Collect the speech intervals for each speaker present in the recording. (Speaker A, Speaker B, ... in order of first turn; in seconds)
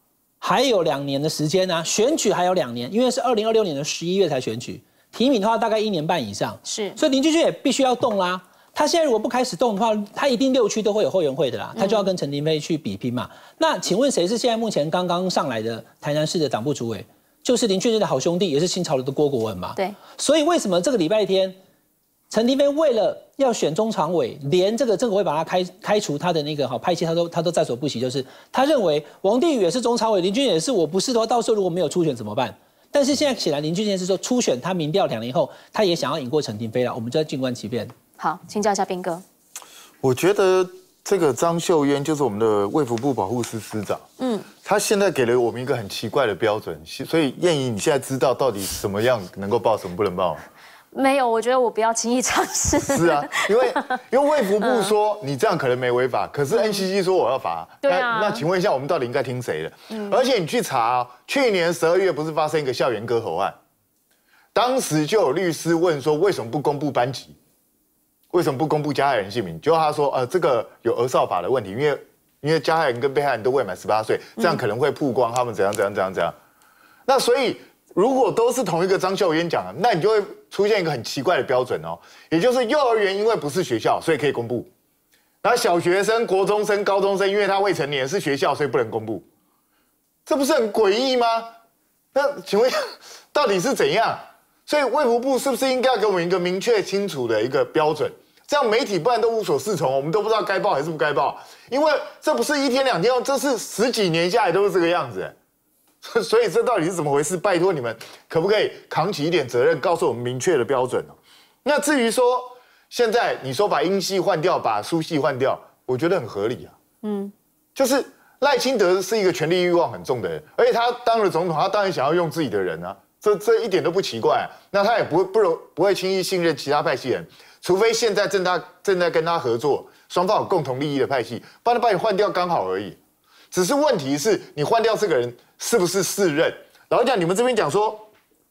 Speaker A: 0.4-21.6, 22.3-37.9
Speaker B: 6.6-7.0, 11.8-12.1, 38.2-39.2, 44.2-44.5, 50.9-54.0, 54.6-54.9, 56.5-56.9, 57.8-58.4, 59.9-60.2, 117.0-117.3
Speaker C: 40.0-44.0, 44.6-50.4, 52.9-63.5, 64.5-67.3, 68.3-76.3, 77.1-84.7, 85.4-89.2, 90.2-91.5, 92.1-92.8, 93.3-105.3, 106.0-116.7, 117.8-133.0, 133.5-138.1